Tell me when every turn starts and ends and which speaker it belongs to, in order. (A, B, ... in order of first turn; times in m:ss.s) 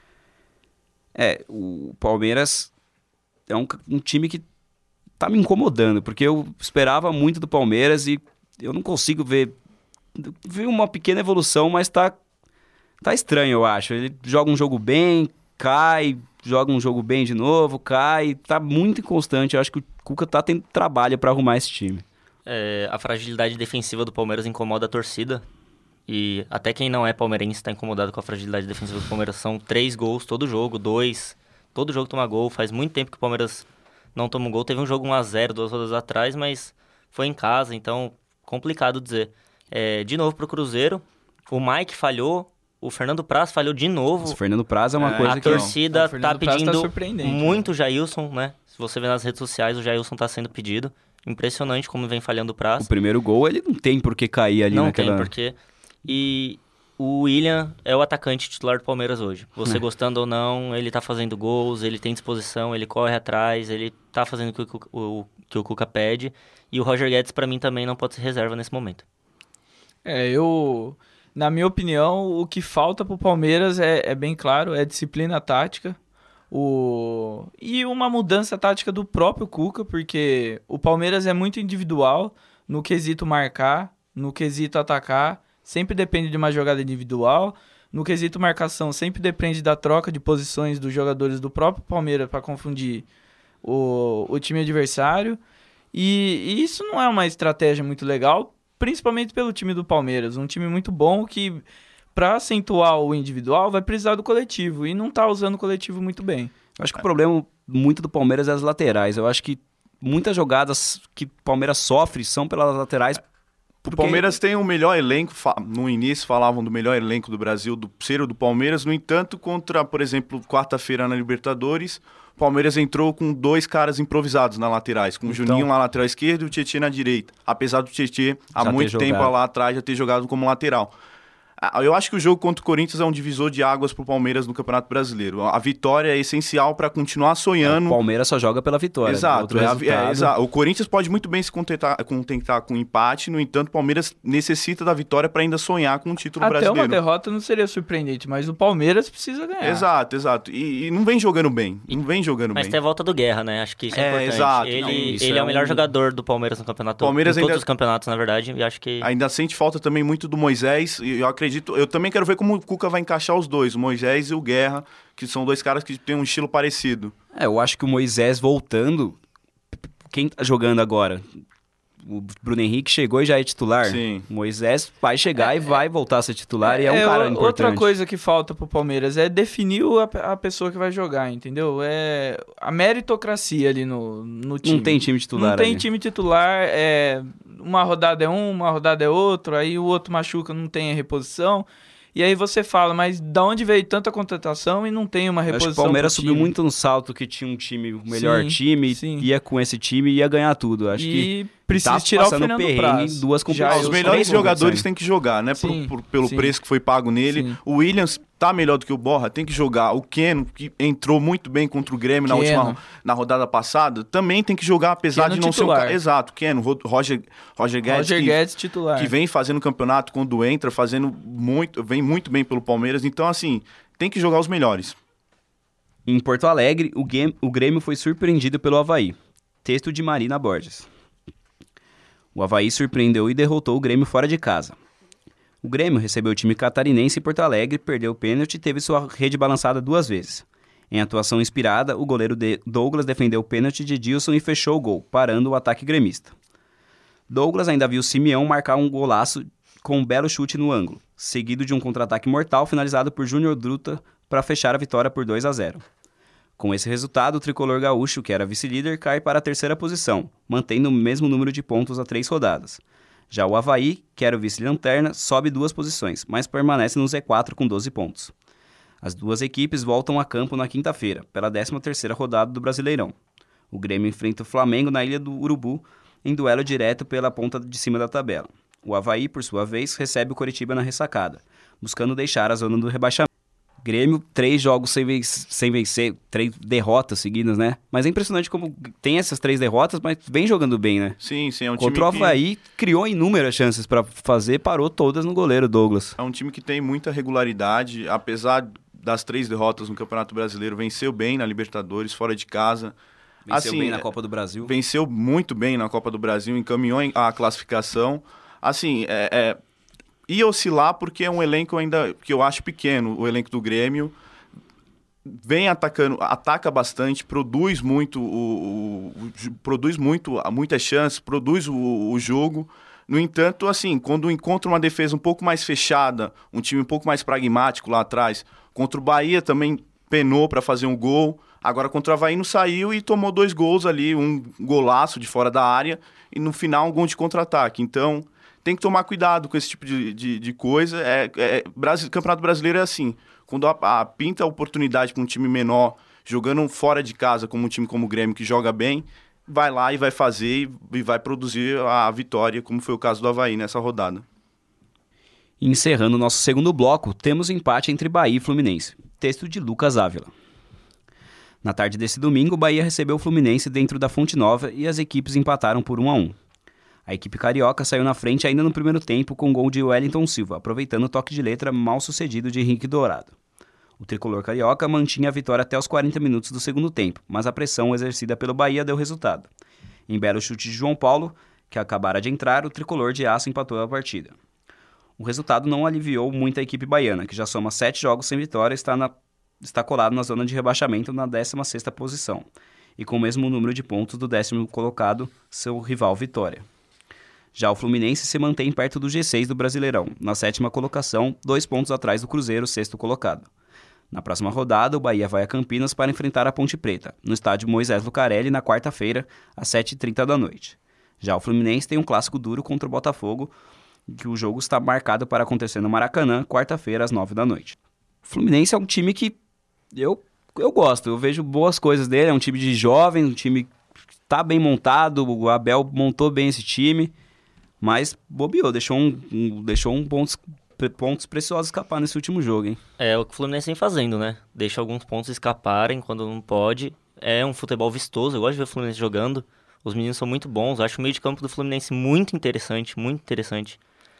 0:01.1-0:02.7 A
0:03.5-0:04.4 A
0:05.2-0:09.5 A
0:10.1-0:12.2 A
0:13.0-0:22.0 A
0:22.4-0:25.4 B
0:26.1-0:44.4 B
0:44.2-0:45.7 A
0:45.0-0:45.8 C
0:45.1-0:52.9 B
0:45.9-0:47.6 D
0:52.8-0:55.3 A
0:54.7-1:09.0 B
1:10.0-1:16.0 D
1:16.5-1:33.0 D
1:33.6-1:35.4 D
1:35.9-1:41.6 D
1:42.1-1:46.5 D
1:46.8-1:53.2 A
1:53.8-2:10.9 C
1:53.8-1:54.2 A
2:05.3-2:05.7 A
2:08.6-2:09.3 A
2:11.6-2:18.0 C
2:17.6-2:20.3 A
2:19.0-2:27.0 C
2:26.4-2:29.8 D
2:29.6-2:32.8 C
2:32.5-2:39.1 B
2:33.9-2:35.5 C
2:34.8-2:35.8 A
2:37.0-2:37.6 C
2:39.0-2:47.1 C
2:47.3-2:49.2 A
2:50.1-2:51.2 A
2:52.0-2:57.9 A
2:53.8-2:54.3 C
2:56.6-3:16.5 D
3:04.6-3:05.8 A
3:15.5-3:24.8 A
3:18.1-3:19.3 D
3:21.0-3:24.6 D
3:23.7-3:38.4 C
3:25.5-3:26.6 D
3:27.3-3:27.6 D
3:32.2-3:32.8 D
3:35.1-3:36.0 D
3:37.9-3:39.1 D
3:39.0-3:45.0 C
3:46.0-3:50.9 A
3:52.3-3:54.8 A
3:55.6-4:06.3 A
4:07.3-4:15.8 A
4:16.6-4:28.3 A
4:29.0-4:33.2 A
4:33.7-4:43.3 A
4:43.8-4:51.2 A
4:51.2-4:52.4 C
4:51.8-4:56.2 A
4:56.2-5:02.9 C
5:03.5-5:04.7 A
5:03.5-5:04.1 C
5:04.6-5:09.6 C
5:10.3-5:14.1 C
5:15.2-5:54.2 C
5:55.6-6:00.3 A
6:01.6-6:06.4 A
6:07.0-6:13.3 A
6:14.0-6:19.5 A
6:20.1-6:24.4 A
6:25.2-6:32.4 A
6:33.0-6:36.6 A
6:37.5-6:43.5 A
6:44.1-6:53.5 A
6:54.1-6:59.4 A
6:59.9-7:03.7 A
7:04.3-7:07.1 A
7:07.8-7:12.8 A
7:13.0-7:23.8 B